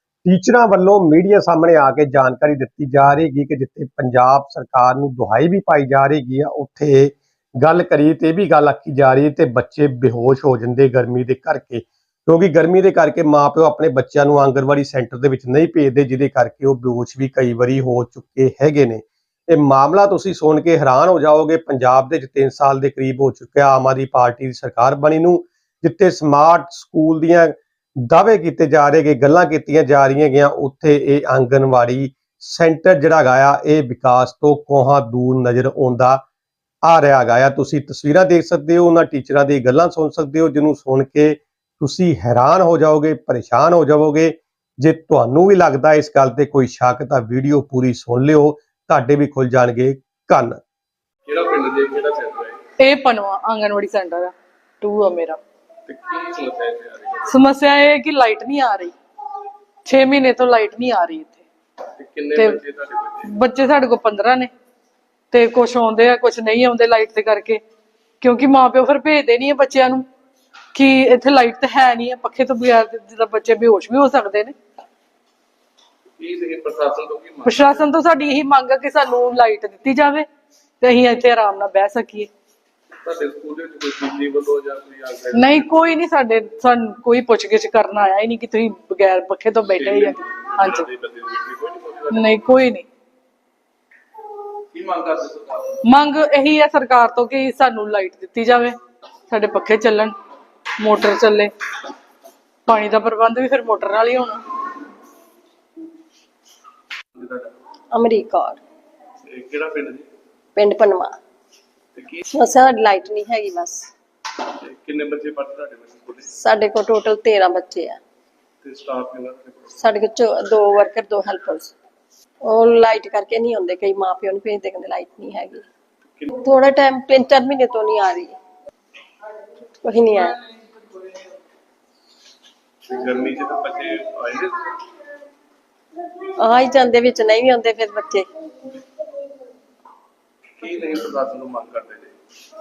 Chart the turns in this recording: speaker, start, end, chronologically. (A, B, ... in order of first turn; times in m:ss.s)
0:00.2-0:36.2 A
0:36.8-0:50.6 A
0:51.2-0:52.7 B
0:52.8-0:55.4 C
0:55.8-0:57.4 B
0:57.3-0:58.9 C
0:59.8-1:01.4 C
1:02.0-1:03.3 B
1:03.2-1:04.5 C
1:05.3-1:07.6 C
1:08.2-1:10.0 C
1:10.7-1:14.5 C
1:16.2-1:17.9 B
1:17.4-1:20.2 C
1:20.8-1:22.3 C
1:23.0-1:25.7 B
1:25.3-1:30.9 C
1:29.8-1:32.4 B
1:32.1-1:32.8 C
1:34.7-1:35.8 B
1:35.8-1:38.8 C
1:39.3-1:40.2 C
1:40.8-1:41.5 C
1:42.7-1:44.4 C
1:47.1-1:47.5 B
1:47.9-1:48.6 D
1:49.3-1:50.1 B
1:50.6-1:51.1 D
1:51.9-1:52.2 B
1:52.3-1:53.9 D
1:54.6-1:56.3 B
1:56.3-1:58.0 D
1:58.6-1:59.8 B
1:59.8-2:01.7 D
2:02.4-2:05.6 D
2:06.3-2:08.4 D
2:09.8-2:10.4 D
2:12.8-2:14.7 B
2:16.3-2:18.2 D
2:20.6-2:22.1 B